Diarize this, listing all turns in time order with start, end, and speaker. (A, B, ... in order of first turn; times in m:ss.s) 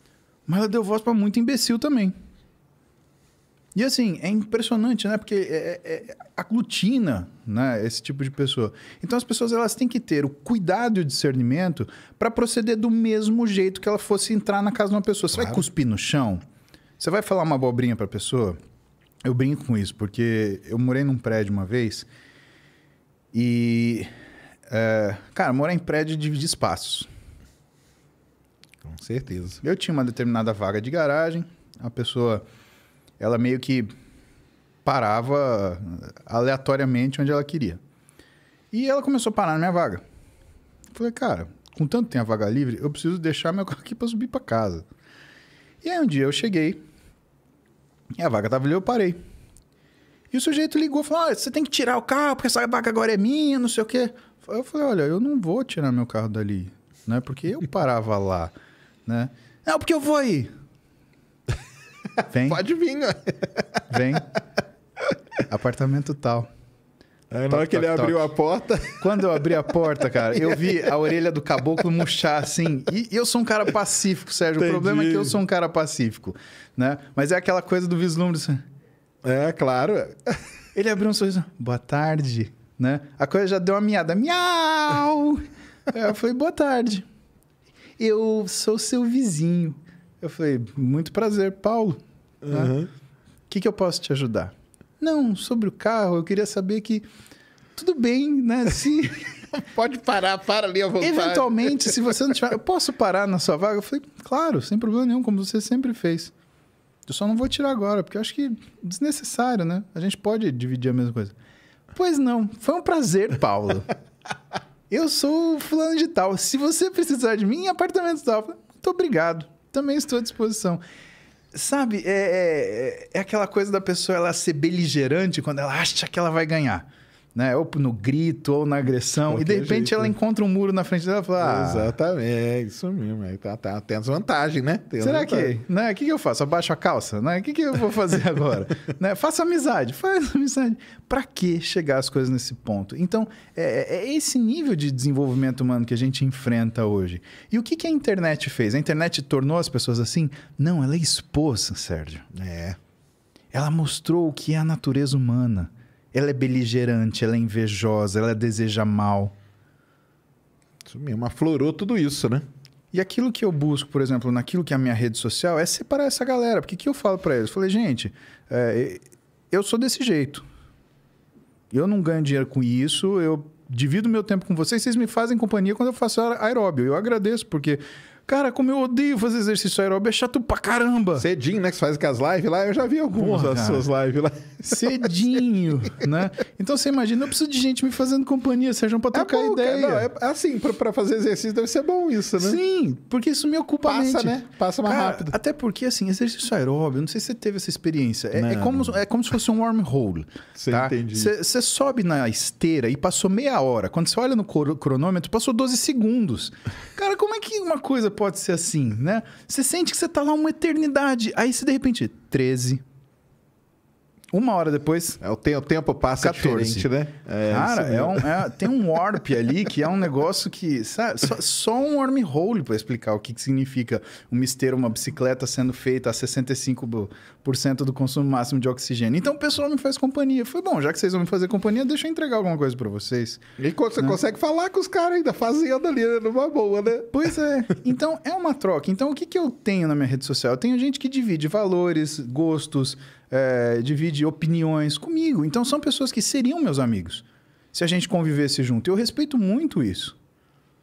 0:00.5-0:02.1 A
0:03.7-0:16.4 A
0:15.3-0:15.6 B
0:17.0-0:18.6 A
0:19.2-0:22.1 A
0:23.3-0:24.1 A
0:24.7-0:27.1 A
0:28.8-0:29.6 B
0:29.6-0:32.4 A
0:33.2-0:33.9 A
0:34.8-0:37.8 A
0:38.7-0:40.0 A
0:40.9-0:44.9 A
0:45.8-0:46.8 A
0:48.2-0:49.2 A
0:50.3-0:58.5 A
0:59.1-1:00.5 A
1:02.3-1:02.6 A
1:02.5-1:03.4 B
1:03.9-1:04.3 A
1:05.5-1:06.5 A
1:07.3-1:09.0 B
1:07.5-1:08.3 A
1:09.0-1:18.6 A
1:10.5-1:10.8 B
1:14.6-1:15.4 B
1:19.2-1:20.3 B
1:20.8-1:27.1 A
1:28.0-1:32.8 A
1:32.4-1:32.9 B
1:33.5-1:37.1 A
1:37.8-1:39.3 A
1:39.6-1:42.0 B
1:41.0-1:46.3 A
1:47.1-1:51.4 A
1:51.9-1:53.9 A
1:54.9-2:00.8 A
2:01.5-2:12.0 A
2:09.3-2:10.1 B
2:11.4-2:15.5 B
2:15.0-2:32.3 A
2:32.3-2:32.8 B
2:33.5-2:39.4 A
2:40.9-2:42.5 B
2:42.9-2:50.5 A
2:51.7-3:01.2 A
3:01.2-3:05.3 B
3:03.1-3:03.9 A
3:04.7-3:10.1 A
3:09.1-3:12.6 B
3:12.4-3:32.8 A
3:13.8-3:15.3 B
3:18.3-3:19.0 B
3:20.6-3:21.3 B
3:34.3-3:35.2 A
3:35.2-3:38.5 B
3:36.2-3:36.9 A
3:37.5-3:53.4 A
3:53.6-3:57.2 B
3:57.1-4:10.2 A